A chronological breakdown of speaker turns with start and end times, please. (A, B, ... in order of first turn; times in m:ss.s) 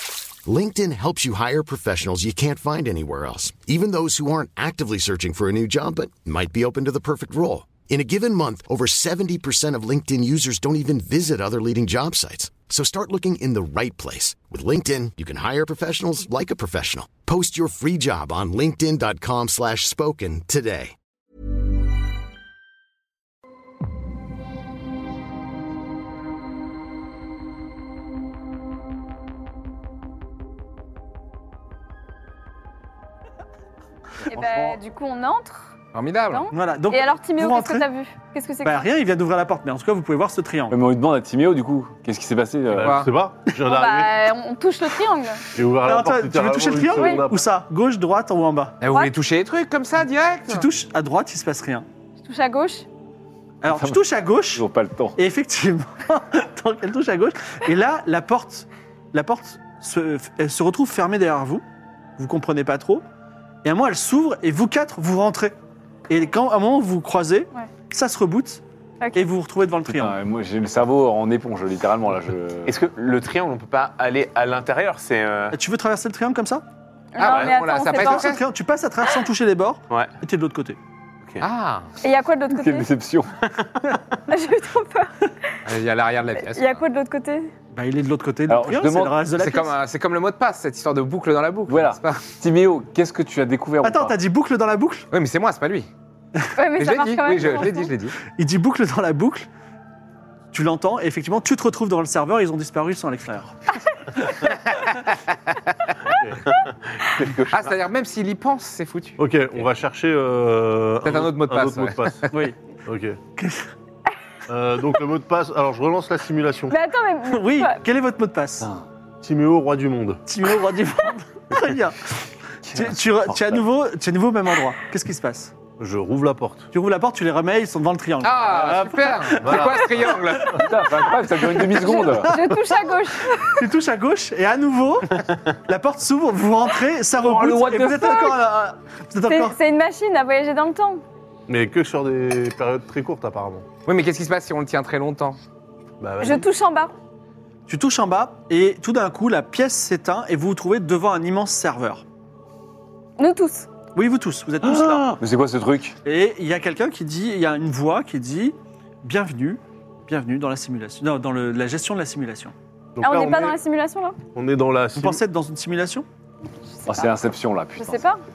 0:00.4-0:20.9 A
0:34.3-0:35.8 B
0:34.3-0:34.8 C
0:35.9-0:36.5 D
0:36.3-0:38.9 B
0:36.5-0:37.9 C
0:38.6-0:40.8 C
0:40.7-0:43.0 E
0:42.7-0:44.1 F
0:42.8-0:43.1 D
0:43.6-0:45.4 B
0:45.5-0:47.5 F
0:45.8-0:48.8 C
0:46.9-0:47.2 B
0:48.8-0:50.7 D
0:48.9-0:49.2 B
0:50.5-0:51.9 C
0:52.2-0:52.9 B
0:53.6-0:54.6 C
0:53.7-0:54.0 E
0:54.5-0:55.2 E
0:55.2-1:01.6 C
1:02.2-1:03.0 C
1:03.6-1:05.5 C
1:06.1-1:08.6 C
1:09.0-1:09.3 B
1:09.2-1:10.2 C
1:09.8-1:12.8 E
1:12.7-1:15.6 G
1:15.5-1:16.6 C
1:17.1-1:18.3 B
1:17.2-1:18.4 D
1:17.2-1:17.6 G
1:18.0-1:20.8 C
1:21.4-1:21.9 D
1:22.0-1:22.9 B
1:22.6-1:23.3 E
1:24.3-1:25.5 B
1:25.7-1:26.8 D
1:26.4-1:27.5 B
1:27.7-1:29.8 C
1:28.5-1:29.2 E
1:29.4-1:32.2 D
1:31.7-1:34.2 E
1:33.8-1:35.1 C
1:35.1-1:35.9 D
1:36.6-1:37.9 B
1:36.8-1:38.2 D
1:38.2-1:39.5 C
1:40.5-1:43.6 C
1:46.1-1:46.4 F
1:47.0-1:47.8 G
1:47.5-1:49.2 D
1:49.2-1:52.3 F
1:51.0-1:52.5 D
1:52.3-1:52.6 C
1:52.9-1:53.2 F
1:53.4-1:53.7 C
1:54.5-1:56.8 F
1:56.7-1:57.8 B
1:57.3-1:58.7 C
1:59.2-2:00.2 F
2:00.3-2:05.5 C
2:02.7-2:03.6 E
2:05.8-2:06.7 F
2:06.7-2:10.7 C
2:08.2-2:10.8 D
2:09.4-2:09.8 F
2:10.5-2:12.4 E
2:11.4-2:12.6 C
2:11.7-2:13.7 B
2:13.6-2:19.6 C
2:17.2-2:18.3 E
2:19.3-2:21.0 B
2:21.5-2:23.7 F
2:23.8-2:25.4 D
2:26.0-2:26.5 F
2:26.2-2:26.9 B
2:27.7-2:32.0 C
2:33.2-2:33.7 B
2:34.0-2:35.2 C
2:34.6-2:36.0 E
2:36.1-2:42.5 C
2:43.0-2:43.6 F
2:43.0-2:44.2 B
2:44.3-2:45.2 F
2:45.0-2:46.0 C
2:46.8-2:47.1 B
2:46.9-2:48.0 E
2:47.8-2:48.2 B